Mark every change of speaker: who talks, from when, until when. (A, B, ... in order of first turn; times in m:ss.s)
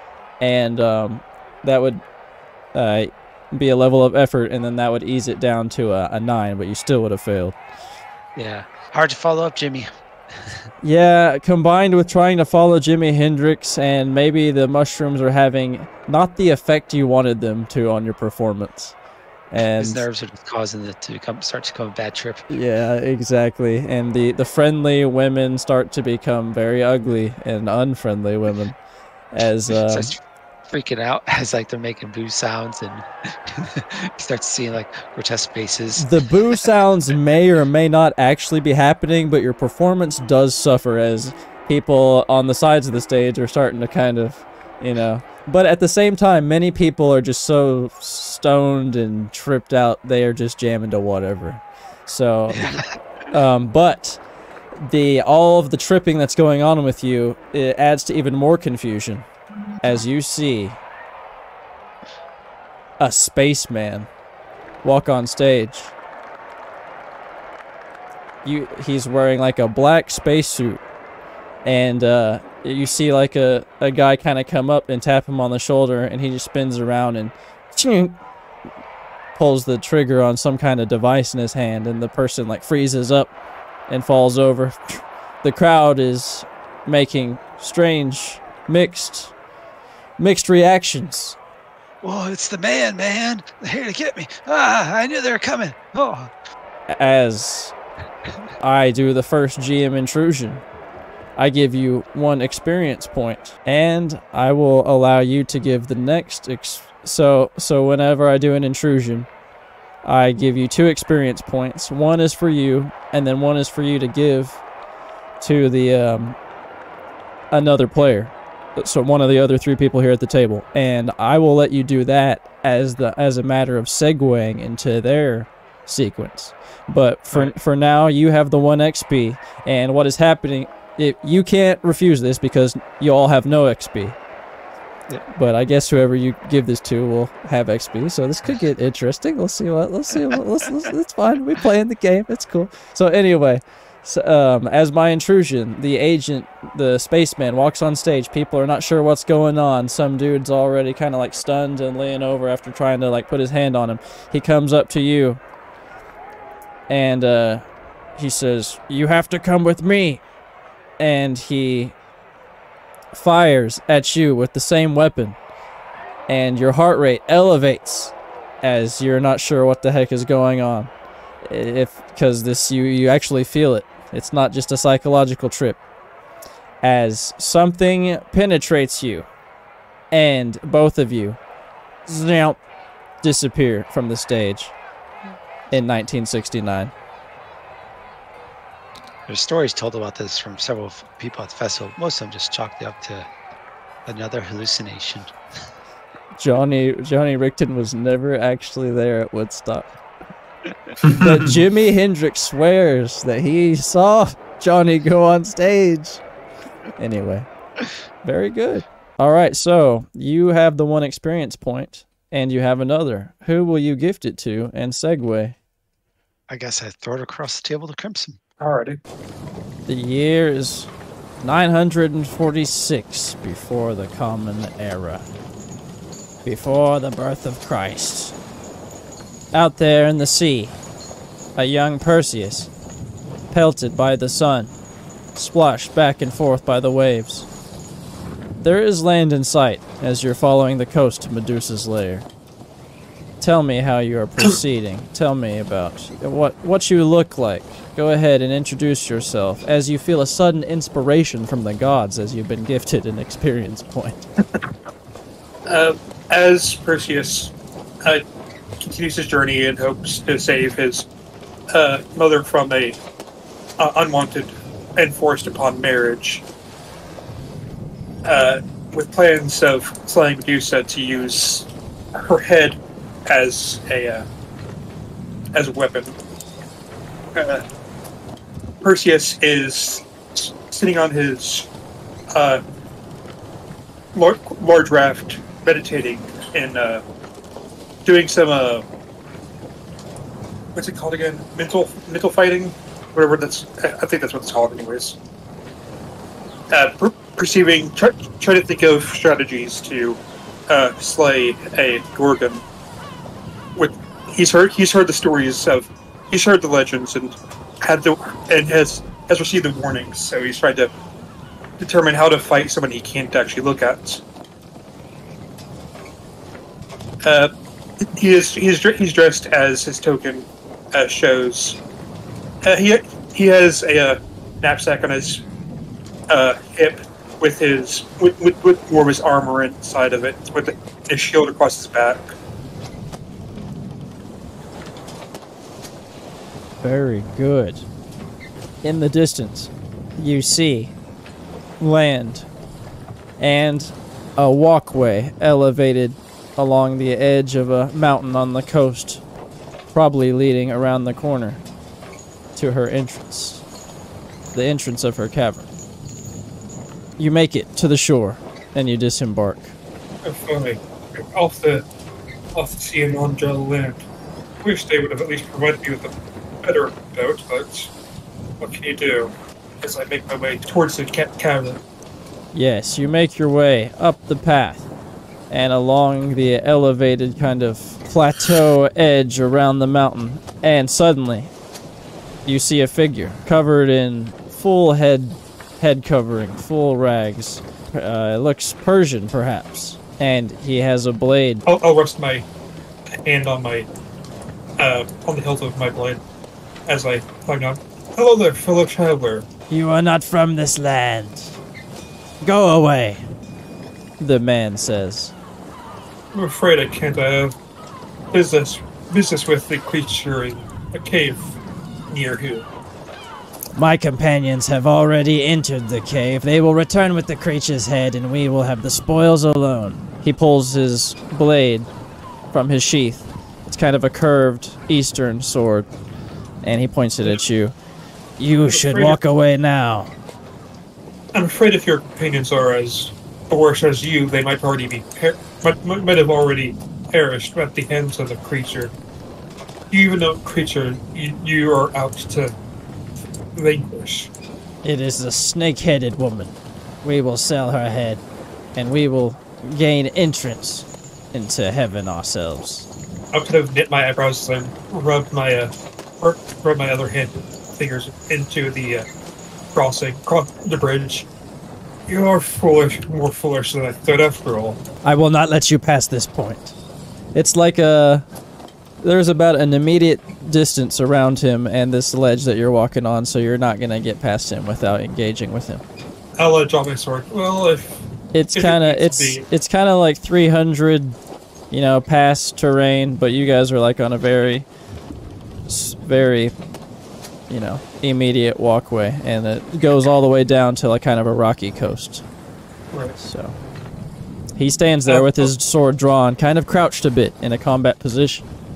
0:00.4-0:02.0 A
0:02.7-0:07.6 A
0:08.4-0:10.6 B
0:10.8-0:18.9 A
0:19.5-0:20.0 A
0:19.8-0:22.4 B
0:22.5-0:28.8 A
0:29.3-0:30.1 A
0:29.7-0:36.1 B
0:36.0-0:54.2 A
0:52.5-0:52.8 B
0:54.8-0:59.2 A
0:59.8-1:00.8 A
1:03.0-1:04.1 A
1:04.8-1:05.9 A
1:08.4-1:10.8 A
1:11.6-1:18.2 A
1:19.4-1:23.3 A
1:23.9-1:29.3 A
1:30.2-1:31.4 A
1:32.0-1:36.3 B
1:36.9-1:37.7 A
1:38.6-1:40.6 A
1:41.4-1:49.3 A
1:50.0-1:54.6 A
1:55.4-1:56.4 A
1:57.5-2:14.2 A
2:15.3-2:35.4 A
2:36.9-2:37.6 A
2:38.2-2:40.2 A
2:41.0-2:41.9 A
2:43.1-2:45.4 A
2:46.3-2:50.9 A
2:51.4-2:55.8 A
2:56.8-2:59.3 A
3:00.1-3:01.4 A
3:02.0-3:02.6 A
3:03.2-3:04.7 A
3:05.7-3:06.9 A
3:09.3-3:13.3 B
3:14.0-3:15.3 B
3:16.4-3:19.9 A
3:21.0-3:26.2 A
3:27.0-3:27.5 A
3:28.2-3:35.6 A
3:36.5-3:38.4 B
3:38.6-3:39.0 C
3:39.8-3:40.9 A
3:41.4-3:45.2 A
3:46.4-3:48.3 A
3:49.5-3:50.8 A
3:51.6-3:52.7 A
3:53.5-3:54.7 A
3:55.3-3:57.5 A
3:58.6-4:02.3 A
4:03.4-4:14.3 A
4:15.6-4:18.2 C
4:18.8-4:21.1 C
4:21.7-4:23.0 C
4:23.8-4:26.4 C
4:28.2-4:34.3 C
4:35.5-4:36.1 C
4:37.3-4:37.6 C
4:38.8-4:41.7 C
4:42.3-4:42.6 C
4:44.1-4:47.0 C
4:48.0-4:48.8 C
4:50.7-4:55.2 C
4:56.7-5:02.6 C
5:03.8-5:10.9 C
5:11.8-5:14.2 C
5:17.2-5:17.5 C
5:18.2-5:21.8 C
5:22.6-5:25.4 C
5:26.3-5:32.3 C
5:36.8-5:37.8 A
5:38.8-5:40.9 A
5:41.8-5:42.5 A
5:43.4-5:49.2 A
5:49.9-5:51.6 A
5:52.5-5:53.6 A
5:54.5-5:55.7 A
5:57.2-5:59.7 A
6:00.2-6:01.8 C
6:02.5-6:04.1 C
6:04.6-6:07.9 C
6:08.6-6:11.8 C
6:12.5-6:14.9 A
6:15.5-6:21.5 A
6:22.4-6:31.6 A
6:31.6-6:32.4 C
6:33.2-6:33.9 C
6:34.8-6:36.2 C
6:36.9-6:39.5 C
6:39.7-6:41.6 A
6:42.4-6:43.2 A
6:44.2-6:45.3 A
6:46.3-6:47.6 C
6:48.3-6:51.6 C
6:52.1-6:52.7 C
6:53.7-7:01.9 A
7:02.5-7:05.9 A
7:06.6-7:07.7 A
7:08.4-7:10.1 A
7:08.7-7:09.2 C
7:11.3-7:18.9 C
7:19.9-7:22.6 C
7:23.5-7:24.3 C
7:24.8-7:28.2 A
7:28.7-7:32.9 A
7:33.3-7:39.0 C
7:39.7-7:41.3 C
7:42.1-7:44.8 C
7:45.0-7:46.8 A
7:47.3-7:48.2 A
7:49.0-7:55.8 A
7:56.4-7:59.4 C
7:58.3-8:01.2 A
8:01.7-8:04.7 A
8:05.7-8:06.5 A
8:07.5-8:12.2 A
8:12.9-8:13.2 C
8:13.2-8:13.6 A
8:14.6-8:18.4 A
8:15.1-8:15.5 C